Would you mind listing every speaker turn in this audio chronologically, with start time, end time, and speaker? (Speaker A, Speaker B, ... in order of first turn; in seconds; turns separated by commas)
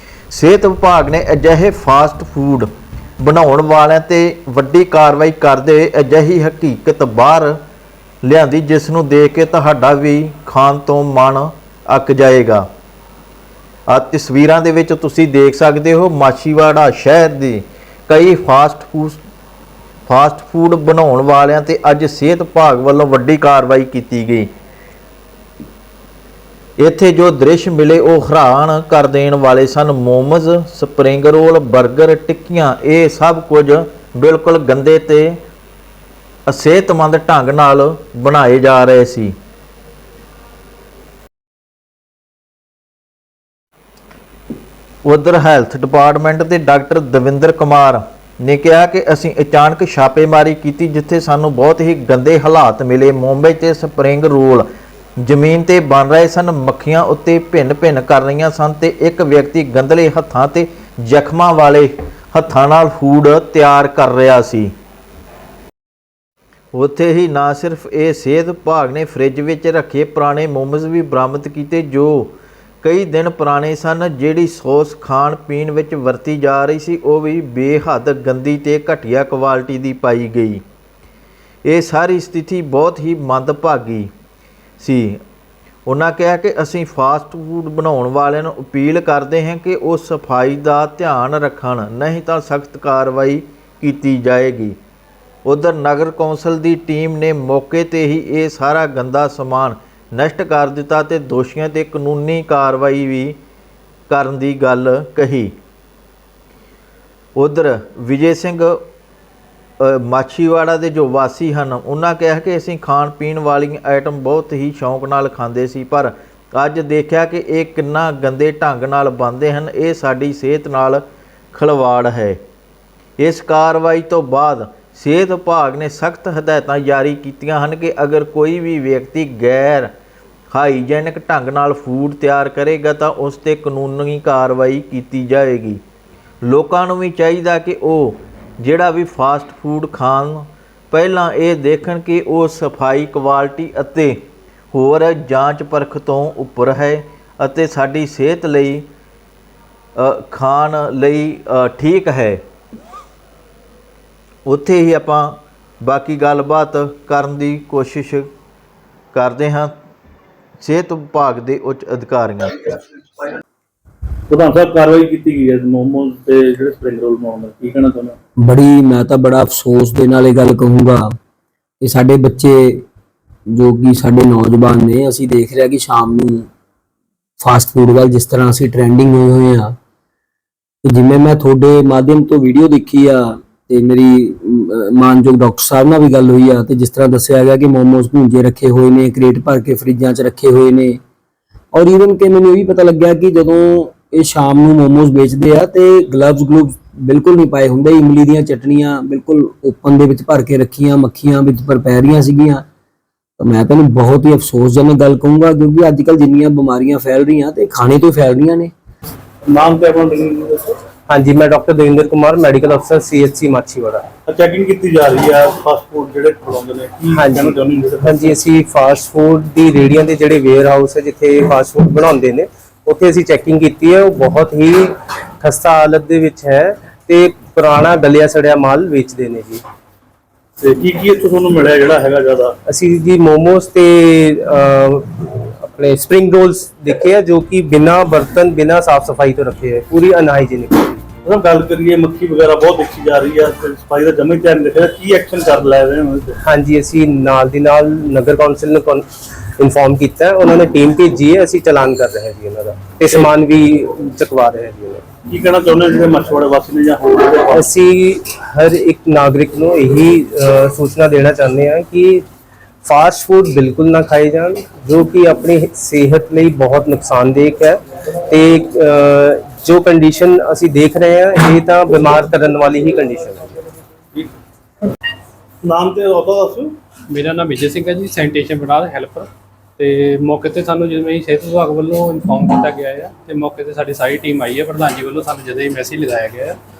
Speaker A: 0.3-2.7, Speaker A: 3.2-7.6, Speaker A: 8.2-12.7, Speaker A: 13.9-19.2, Speaker A: 20.1-24.5, Speaker A: 26.8-35.4, Speaker A: 36.5-39.3, Speaker A: 45.0-54.6, Speaker A: 55.2-64.7, Speaker A: 66.7-80.6, Speaker A: 81.7-84.1, Speaker A: 84.8-85.2, Speaker A: 85.8-94.8, Speaker A: 95.4-103.4, Speaker A: 104.1-105.5, Speaker A: 107.3-108.8, Speaker A: 109.8-122.4, Speaker A: 123.2-129.9, Speaker A: 130.5-135.8, Speaker A: 136.4-144.2, Speaker A: 144.7-148.9, Speaker A: 150.0-152.4, Speaker A: 154.4-158.3, Speaker A: 159.1-159.7, Speaker A: 160.6-162.7, Speaker B: 164.3-168.2, Speaker C: 168.4-171.1, Speaker C: 171.8-172.8, Speaker C: 173.5-176.5, Speaker C: 177.4-179.8, Speaker C: 180.8-191.0, Speaker C: 191.7-202.7, Speaker C: 203.4-208.7, Speaker B: 209.4-210.8, Speaker D: 211.1-214.1, Speaker B: 214.3-218.3, Speaker D: 217.1-229.6, Speaker B: 230.6-232.6, Speaker D: 232.7-241.0, Speaker B: 241.2-246.3, Speaker D: 246.4-255.0, Speaker B: 255.2-257.7, Speaker D: 257.5-262.2, Speaker D: 262.8-273.5, Speaker B: 275.6-276.7, Speaker E: 277.1-286.6